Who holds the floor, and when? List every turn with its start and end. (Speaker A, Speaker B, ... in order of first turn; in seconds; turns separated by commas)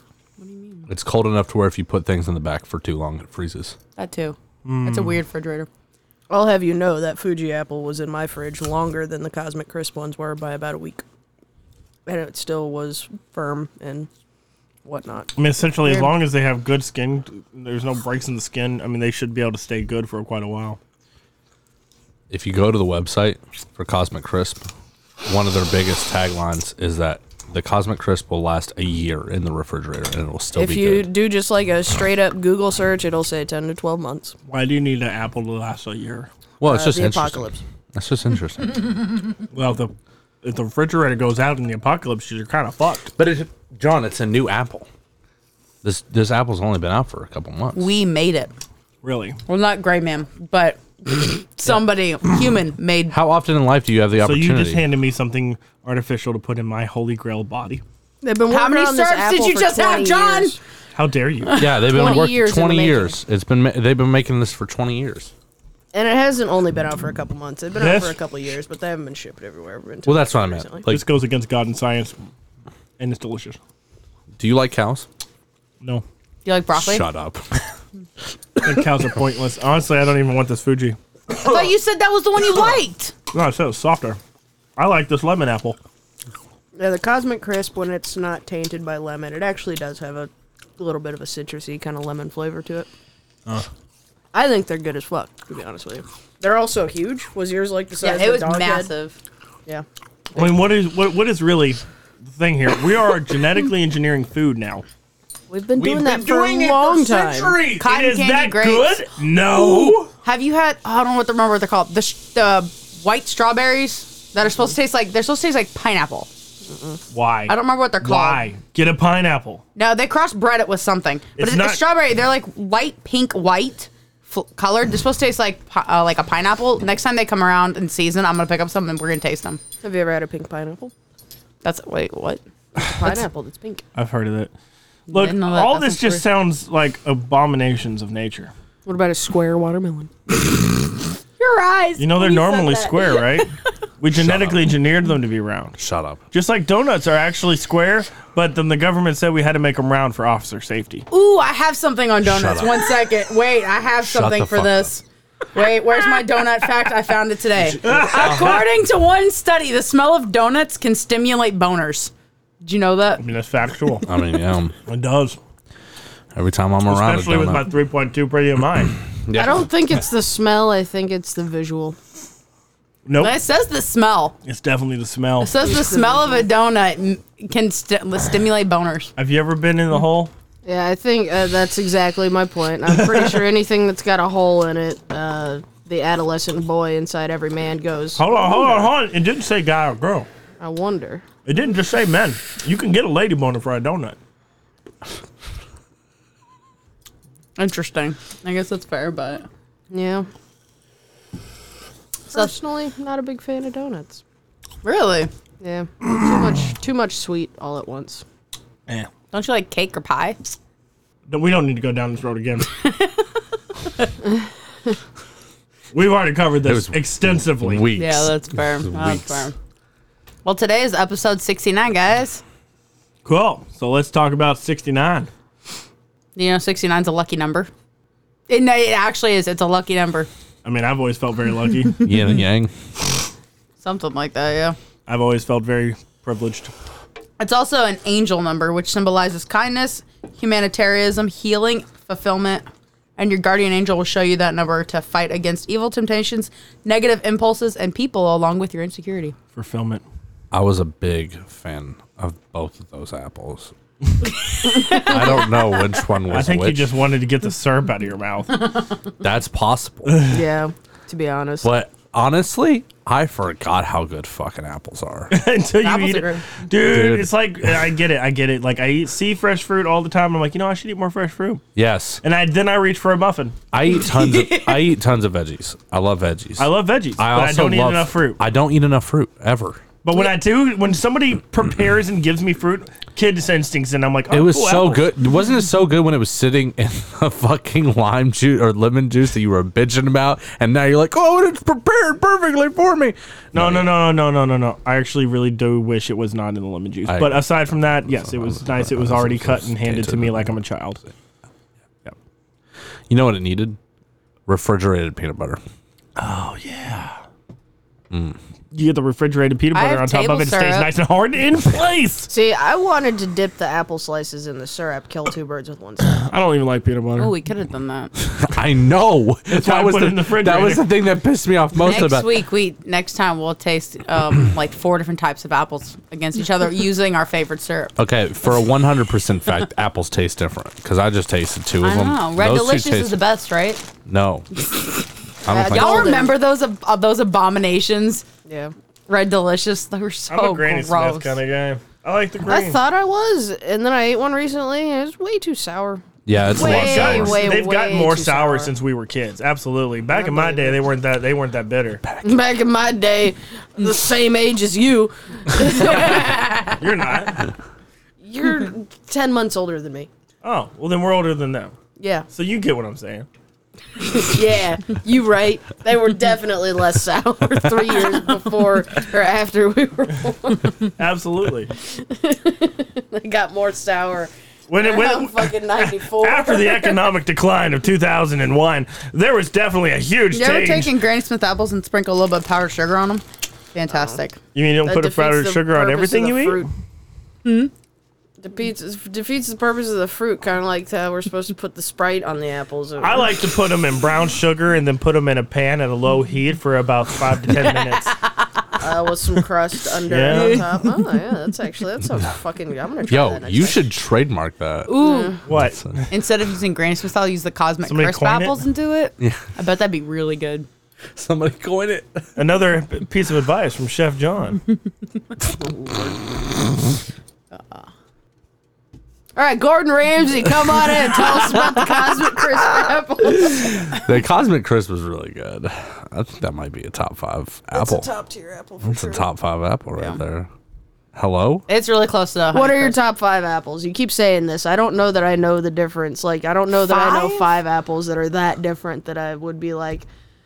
Speaker A: 0.4-0.9, Speaker B: 0.9-3.8, Speaker A: 4.0-5.7, Speaker C: 4.6-5.2, Speaker D: 6.3-11.0, Speaker D: 12.1-14.1, Speaker D: 14.8-15.3, Speaker C: 15.4-20.8, Speaker B: 22.3-24.7, Speaker B: 25.2-31.1, Speaker D: 30.5-34.3, Speaker C: 34.5-36.3, Speaker B: 36.6-39.0, Speaker D: 36.6-37.6, Speaker C: 39.5-43.1, Speaker B: 43.1-44.9, Speaker B: 45.8-47.9, Speaker A: 47.7-48.5, Speaker C: 49.0-49.4, Speaker A: 49.5-53.1, Speaker B: 53.1-54.8, Speaker C: 54.2-57.8, Speaker D: 58.2-60.6, Speaker A: 58.5-60.5, Speaker C: 60.9-61.7, Speaker A: 61.5-62.3, Speaker B: 61.5-65.3, Speaker D: 61.8-63.1, Speaker D: 65.9-70.8, Speaker C: 67.8-68.1, Speaker B: 70.0-71.1, Speaker C: 70.9-72.2, Speaker C: 73.0-73.6, Speaker B: 74.4-75.1, Speaker A: 76.4-77.0, Speaker B: 76.7-77.4, Speaker C: 78.6-81.7, Speaker A: 81.4-83.1, Speaker C: 83.3-84.2, Speaker C: 84.8-85.8, Speaker D: 86.8-92.9, Speaker D: 94.3-98.9, Speaker A: 98.0-99.2, Speaker D: 100.3-100.6, Speaker C: 100.3-104.8, Speaker D: 105.5-107.6, Speaker B: 105.7-107.5, Speaker C: 107.1-110.1, Speaker A: 107.8-109.0, Speaker A: 110.0-116.3, Speaker D: 116.7-117.0, Speaker C: 117.1-119.6, Speaker A: 117.5-118.5, Speaker A: 119.8-129.6, Speaker C: 121.4-121.8, Speaker D: 129.8-130.9, Speaker A: 131.6-132.4, Speaker D: 132.7-133.8, Speaker C: 133.9-134.5, Speaker A: 135.1-136.2, Speaker C: 135.1-138.5, Speaker D: 138.8-140.1, Speaker A: 141.4-143.7, Speaker C: 142.0-143.5, Speaker C: 144.0-145.8, Speaker B: 144.1-144.7, Speaker B: 145.8-146.2, Speaker C: 146.3-151.0, Speaker A: 151.1-155.0, Speaker B: 152.2-152.9, Speaker B: 154.0-154.9, Speaker A: 155.5-163.2, Speaker B: 157.6-158.6, Speaker C: 157.8-158.6, Speaker C: 163.2-164.1, Speaker B: 164.0-164.7, Speaker C: 164.9-165.4, Speaker B: 166.3-167.7, Speaker C: 166.9-168.9, Speaker B: 169.2-169.7, Speaker D: 169.3-172.0, Speaker C: 173.1-173.3, Speaker A: 173.2-174.3, Speaker C: 174.4-175.5, Speaker A: 175.4-179.1, Speaker D: 175.6-176.5, Speaker C: 179.2-180.3, Speaker D: 180.6-188.9, Speaker C: 183.1-183.4, Speaker C: 188.2-190.3, Speaker D: 190.6-191.2, Speaker C: 191.4-194.2, Speaker A: 197.6-199.4, Speaker D: 199.9-200.3, Speaker D: 202.3-204.2, Speaker A: 204.8-205.3, Speaker D: 205.6-208.2, Speaker A: 209.3-210.5, Speaker C: 211.3-212.7, Speaker A: 212.8-213.3, Speaker C: 215.9-217.8, Speaker B: 216.6-219.5, Speaker A: 218.0-219.5, Speaker A: 220.4-222.4, Speaker C: 223.2-225.3, Speaker A: 226.3-227.7, Speaker A: 228.5-230.3, Speaker C: 230.6-232.1, Speaker B: 232.0-232.7, Speaker A: 233.8-234.8, Speaker C: 235.1-236.7, Speaker A: 237.4-249.3, Speaker C: 249.6-250.0, Speaker B: 250.5-253.7, Speaker A: 254.6-255.4, Speaker B: 254.8-256.9, Speaker C: 256.3-258.6, Speaker B: 259.2-260.3, Speaker C: 260.1-260.4, Speaker D: 260.3-261.7, Speaker B: 261.6-265.3, Speaker C: 265.3-271.6, Speaker A: 265.8-266.4, Speaker B: 266.8-267.3, Speaker B: 271.7-272.2, Speaker C: 272.2-273.6, Speaker B: 273.7-279.8, Speaker A: 274.0-274.8, Speaker C: 276.6-278.4, Speaker C: 280.0-285.1, Speaker B: 284.3-293.9, Speaker C: 293.5-301.0, Speaker B: 297.1-300.5, Speaker B: 303.1-303.8, Speaker B: 304.5-305.6, Speaker C: 306.1-307.2, Speaker B: 308.1-308.4, Speaker C: 308.7-312.3, Speaker A: 309.7-310.9, Speaker D: 312.3-316.2, Speaker C: 316.0-317.3, Speaker A: 317.2-318.1, Speaker B: 318.3-322.3, Speaker C: 319.5-320.8, Speaker A: 321.8-327.9, Speaker B: 328.0-333.2, Speaker A: 331.8-333.8, Speaker B: 334.1-334.5, Speaker B: 335.4-336.3, Speaker D: 335.4-336.3, Speaker A: 335.7-338.2, Speaker D: 338.4-338.7, Speaker A: 339.1-341.4, Speaker C: 340.3-342.8, Speaker D: 342.4-348.7, Speaker B: 346.2-347.6, Speaker C: 346.6-352.0, Speaker D: 350.1-350.8, Speaker D: 352.2-356.7, Speaker C: 356.8-357.4, Speaker D: 358.2-360.1, Speaker C: 360.4-361.7, Speaker D: 362.0-362.2, Speaker C: 362.3-363.3, Speaker D: 364.0-370.7, Speaker C: 371.0-371.7, Speaker D: 371.8-377.0, Speaker C: 374.7-380.9, Speaker A: 380.3-384.4, Speaker D: 383.9-384.2, Speaker C: 384.5-386.7, Speaker D: 384.8-386.7, Speaker A: 387.4-387.7, Speaker D: 388.4-393.4, Speaker C: 393.0-398.1, Speaker A: 397.6-398.4, Speaker D: 398.8-403.8, Speaker C: 400.1-400.6, Speaker A: 400.3-400.6, Speaker B: 403.1-404.9, Speaker A: 404.9-405.4, Speaker D: 405.0-405.4, Speaker C: 405.4-406.1, Speaker A: 406.1-410.7, Speaker C: 407.9-408.6, Speaker B: 411.1-412.2, Speaker C: 412.4-414.6, Speaker D: 415.5-416.2, Speaker A: 417.5-417.8, Speaker D: 419.3-423.9, Speaker B: 423.5-428.1, Speaker D: 427.7-429.2, Speaker B: 428.8-430.5, Speaker B: 431.1-431.6, Speaker A: 431.7-433.0, Speaker D: 432.5-440.1, Speaker A: 436.8-437.5